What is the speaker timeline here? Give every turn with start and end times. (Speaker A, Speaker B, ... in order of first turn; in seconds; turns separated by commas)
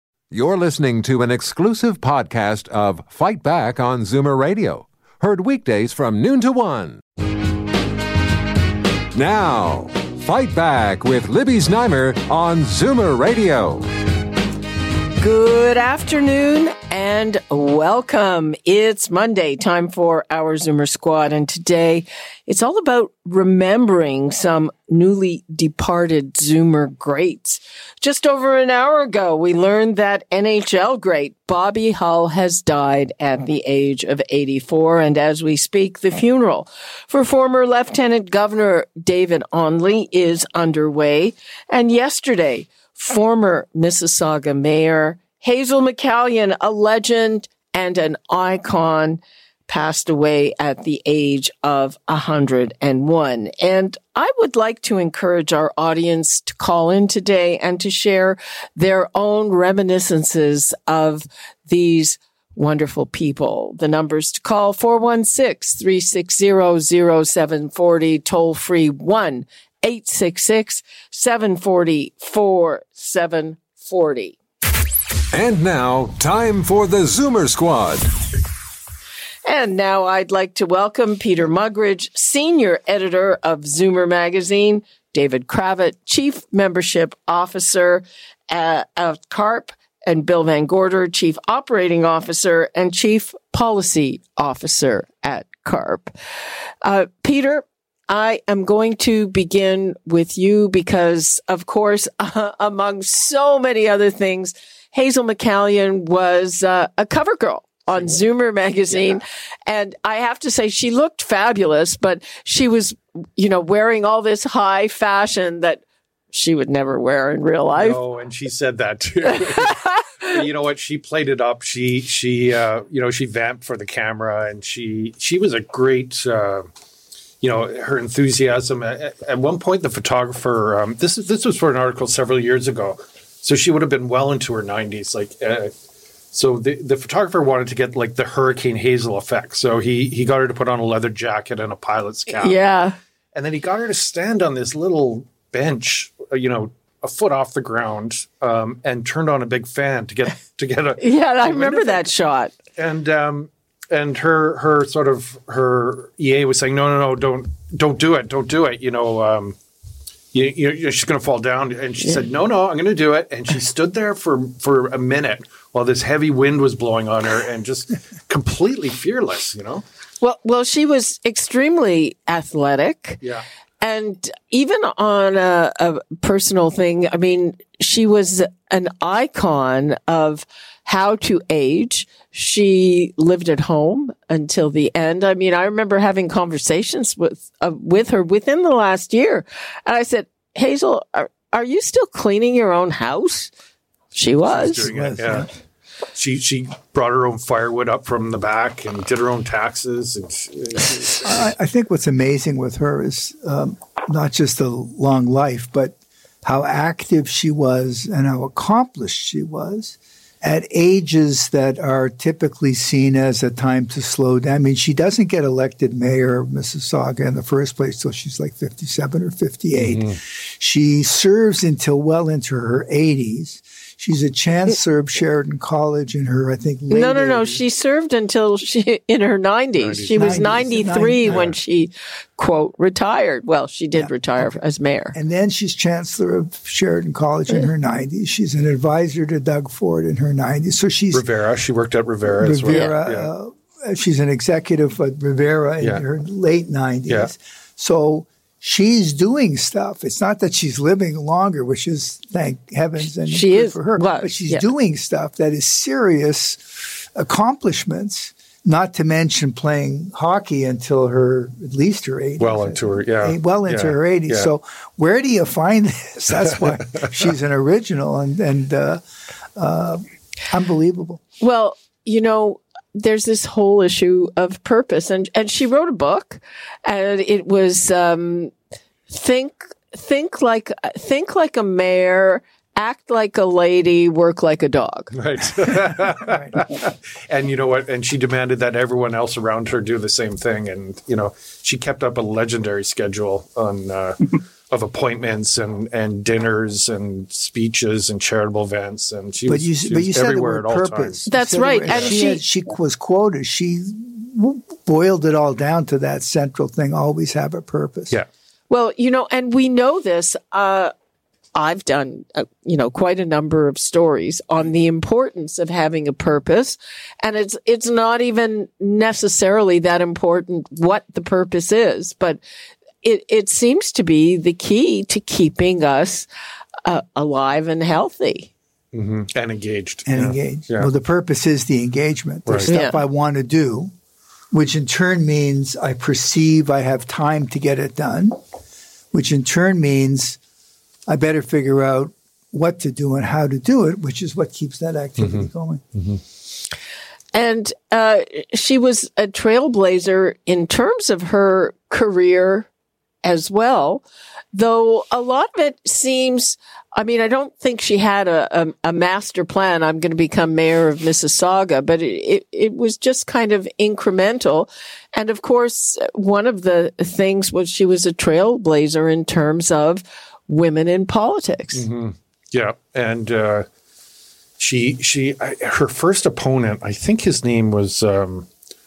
Speaker A: 0.3-7.0, Speaker A: 9.1-13.9, Speaker B: 15.2-74.4, Speaker A: 75.3-78.2, Speaker B: 79.5-96.1, Speaker B: 96.8-118.0, Speaker C: 107.9-108.2, Speaker C: 108.9-109.2, Speaker C: 117.8-126.7, Speaker B: 119.4-120.2, Speaker C: 127.4-135.7, Speaker C: 136.3-142.6, Speaker B: 142.3-143.0, Speaker C: 143.3-152.1, Speaker B: 151.0-152.6, Speaker C: 152.8-159.6, Speaker C: 160.3-169.8, Speaker B: 170.2-173.2, Speaker B: 173.8-193.5, Speaker B: 194.1-194.9, Speaker C: 194.4-195.5, Speaker D: 194.8-195.5, Speaker C: 196.1-201.5, Speaker D: 201.2-227.6, Speaker C: 219.8-220.2, Speaker B: 226.9-235.2, Speaker C: 229.8-230.7, Speaker D: 230.1-231.5, Speaker C: 231.2-231.6, Speaker D: 233.9-234.6, Speaker D: 235.1-241.2, Speaker C: 241.1-243.3, Speaker D: 242.2-269.0, Speaker B: 242.7-243.0, Speaker B: 253.2-254.6, Speaker C: 262.4-264.5, Speaker D: 269.6-271.2, Speaker B: 271.4-278.5, Speaker B: 279.1-285.1, Speaker C: 285.1-301.3, Speaker D: 286.1-286.6, Speaker D: 299.5-308.2, Speaker B: 301.3-302.5, Speaker C: 301.8-302.2, Speaker B: 308.7-310.9, Speaker B: 311.6-322.4, Speaker B: 323.0-326.3, Speaker B: 326.9-328.5, Speaker C: 328.9-330.9, Speaker D: 330.1-333.9, Speaker C: 332.5-332.7, Speaker B: 332.7-333.0, Speaker D: 334.5-338.4, Speaker D: 339.1-340.4, Speaker D: 341.1-345.8, Speaker C: 345.2-346.2, Speaker B: 347.3-352.7, Speaker B: 353.2-371.9, Speaker C: 371.7-373.7, Speaker C: 374.6-378.5